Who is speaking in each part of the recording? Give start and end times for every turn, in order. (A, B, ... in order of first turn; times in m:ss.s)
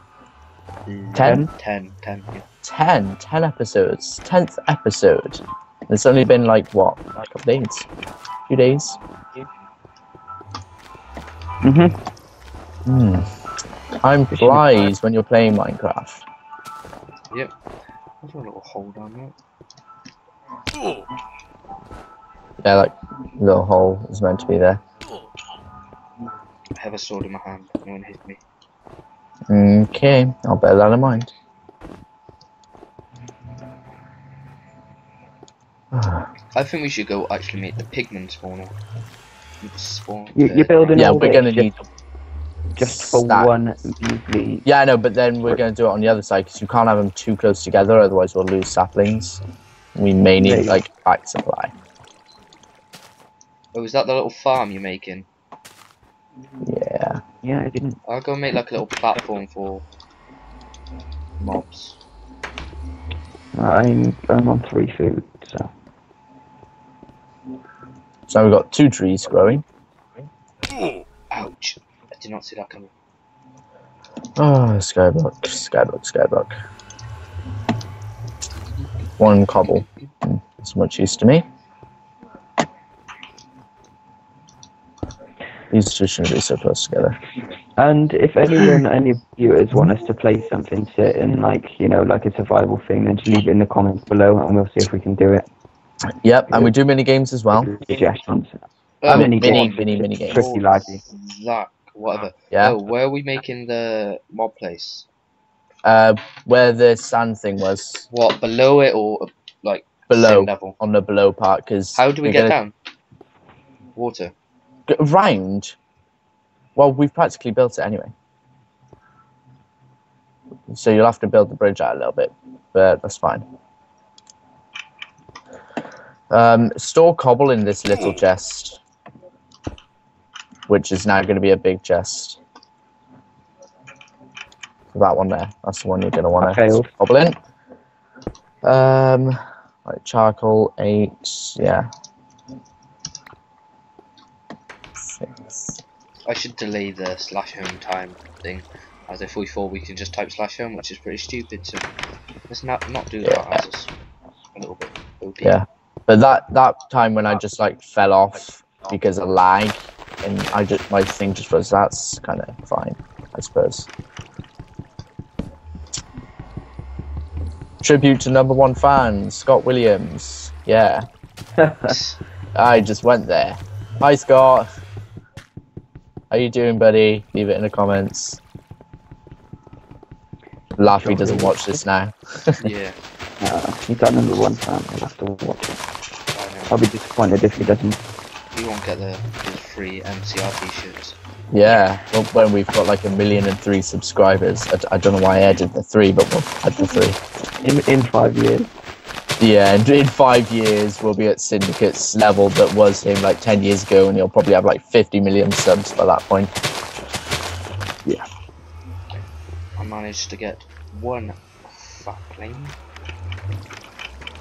0:00.9-0:02.4 A
0:01.1-0:01.4 B
0:01.2-0:01.5 C
0:02.6-0:07.9 B
0:08.5-0:09.0 B
0:11.6-0:12.0 C
0:12.9-0:13.3 B
0:14.0-0:16.2 B
0:14.3-0:14.9 C
0:18.2-0:19.3 A
0:22.6-0:24.8 B
0:26.8-0:28.4 A
0:29.5-0:31.3 B
0:35.9-0:36.3 B
0:36.6-0:38.8 A
0:39.6-0:41.4 A
0:40.4-0:41.8 C
0:40.9-0:41.8 B
0:42.8-0:44.7 C
0:42.8-0:43.5 B
0:44.6-0:49.4 B
0:50.0-0:51.7 B
0:50.4-0:50.8 C
0:53.7-0:55.3 A
0:56.6-0:57.2 B
0:57.4-0:58.0 C
0:58.1-0:59.8 A
1:01.4-1:02.0 A
1:03.6-1:05.7 C
1:08.3-1:09.6 B
1:11.3-1:12.9 A
1:14.4-1:16.5 B
1:19.2-1:21.4 B
1:19.6-1:20.1 A
1:25.7-1:27.2 B
1:27.8-1:35.5 C
1:36.2-1:37.7 B
1:37.6-1:41.0 C
1:39.0-1:45.1 A
1:39.1-1:40.5 B
1:42.5-1:42.8 B
1:45.8-1:48.0 B
1:48.1-1:50.8 A
1:50.1-1:52.6 B
1:51.9-1:52.7 A
1:54.0-1:54.3 A
1:54.9-1:55.8 B
1:56.8-1:58.1 B
2:00.7-2:03.5 B
2:06.3-2:08.8 B
2:10.7-2:12.4 B
2:14.9-2:17.4 B
2:16.4-2:16.9 C
2:18.6-2:21.9 B
2:25.1-2:25.8 B
2:26.3-2:31.8 A
2:32.5-2:33.9 A
2:33.2-2:33.6 B
2:34.6-2:35.6 A
2:35.4-2:43.9 B
2:47.8-2:51.1 B
2:51.6-2:51.9 C
2:51.9-2:52.2 A
2:52.6-2:54.7 B
2:56.3-2:58.4 B
3:00.8-3:02.6 B
3:00.9-3:01.7 C
3:02.6-3:03.0 A
3:03.4-3:05.8 C
3:06.3-3:06.8 A
3:06.7-3:08.0 C
3:08.5-3:11.2 A
3:11.5-3:17.2 B
3:17.6-3:18.7 C
3:19.4-3:26.5 B
3:29.8-3:32.8 A